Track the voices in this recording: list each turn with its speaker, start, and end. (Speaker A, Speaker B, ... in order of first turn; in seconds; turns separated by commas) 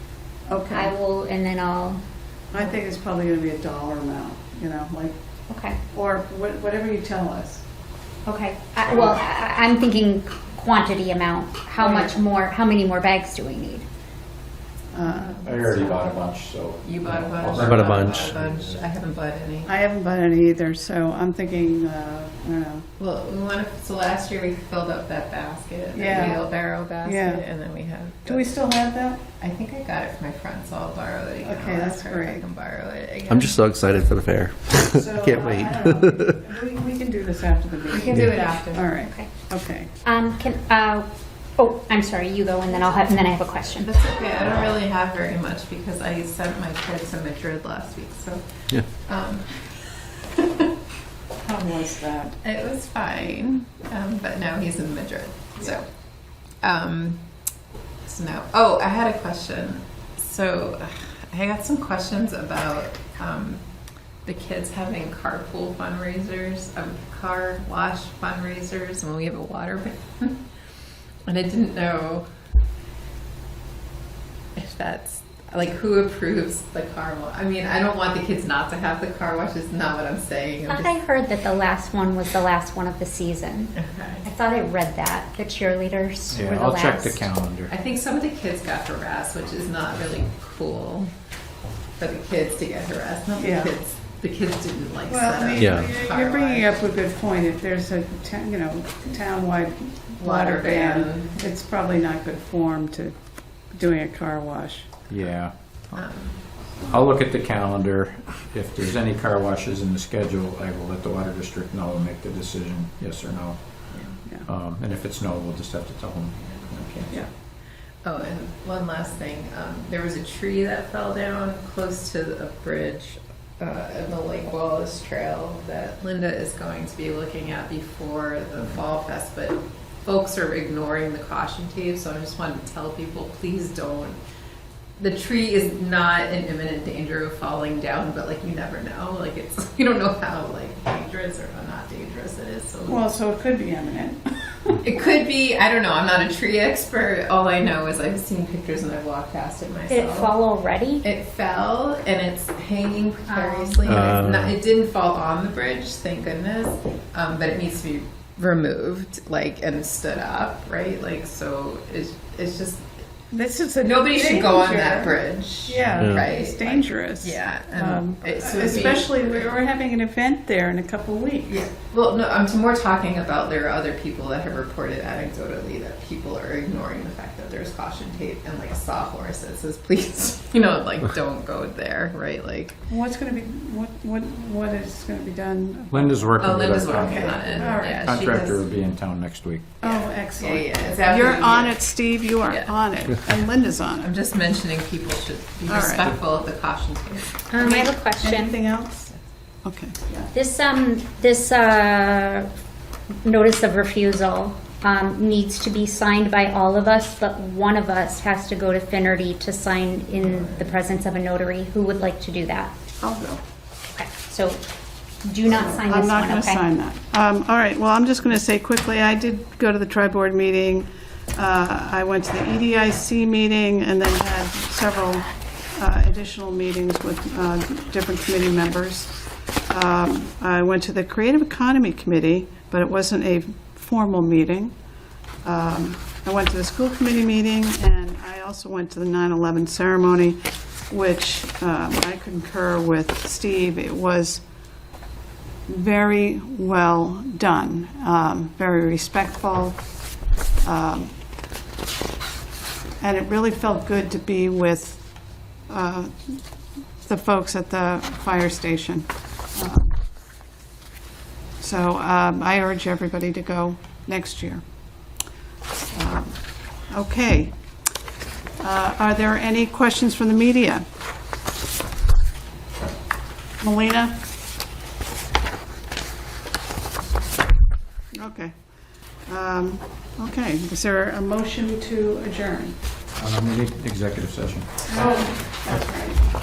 Speaker A: 0.5-0.9, Speaker B: 0.7-2.0, Speaker A: 2.5-5.2, Speaker B: 5.5-5.8, Speaker A: 5.9-7.6, Speaker B: 8.2-13.9, Speaker A: 11.8-12.2, Speaker A: 14.9-15.3, Speaker C: 15.3-18.8, Speaker D: 16.8-19.7, Speaker E: 17.5-18.3, Speaker A: 19.6-22.9, Speaker D: 23.0-28.5, Speaker A: 25.9-26.4, Speaker A: 27.0-27.4, Speaker A: 28.2-29.2, Speaker D: 29.4-33.6, Speaker A: 31.4-32.4, Speaker E: 33.3-36.4, Speaker A: 34.9-39.9, Speaker D: 37.9-38.9, Speaker B: 39.0-39.3, Speaker B: 40.0-43.9, Speaker D: 43.8-49.6, Speaker D: 50.4-50.7, Speaker A: 51.4-52.4, Speaker D: 52.4-55.9, Speaker D: 56.6-57.2, Speaker D: 58.0-63.6, Speaker D: 64.2-70.4, Speaker D: 71.2-72.3, Speaker D: 74.5-80.9, Speaker B: 80.7-87.3, Speaker D: 83.7-84.3, Speaker C: 86.3-87.7, Speaker D: 87.7-91.1, Speaker D: 92.0-96.8, Speaker A: 93.3-93.7, Speaker A: 95.1-103.1, Speaker E: 95.6-95.9, Speaker D: 100.2-101.4, Speaker A: 103.7-104.9, Speaker C: 105.1-106.0, Speaker D: 105.9-106.4, Speaker C: 106.8-113.6, Speaker D: 113.9-114.2, Speaker C: 114.5-117.2, Speaker D: 118.0-134.2, Speaker D: 135.0-143.0, Speaker A: 142.9-144.8, Speaker D: 144.8-150.4, Speaker B: 149.9-151.1, Speaker D: 151.0-162.9, Speaker B: 153.3-154.1, Speaker E: 153.8-154.6, Speaker A: 163.3-171.6, Speaker D: 163.8-169.5, Speaker E: 166.0-166.2, Speaker D: 171.5-182.8, Speaker A: 182.9-188.0, Speaker C: 185.9-189.7, Speaker D: 186.4-188.6, Speaker D: 189.8-191.8, Speaker A: 189.8-194.1, Speaker D: 192.4-192.7, Speaker D: 194.0-197.4, Speaker A: 195.7-196.1, Speaker B: 197.5-198.6, Speaker A: 197.6-199.0, Speaker A: 199.6-200.3, Speaker B: 200.3-202.5, Speaker B: 203.2-212.7, Speaker D: 210.2-210.6, Speaker A: 213.0-213.4, Speaker B: 214.0-214.6, Speaker B: 215.2-216.7, Speaker A: 215.4-229.1, Speaker A: 229.7-234.7, Speaker A: 235.4-244.4, Speaker A: 245.7-249.8, Speaker A: 250.6-251.1, Speaker A: 253.0-255.0, Speaker A: 255.7-256.4, Speaker A: 257.1-260.0, Speaker A: 261.6-264.6, Speaker A: 265.9-266.4, Speaker A: 266.9-267.6, Speaker A: 268.6-270.8, Speaker A: 273.6-274.2, Speaker A: 278.1-278.5, Speaker A: 279.3-282.8, Speaker C: 283.1-284.7, Speaker A: 284.9-286.2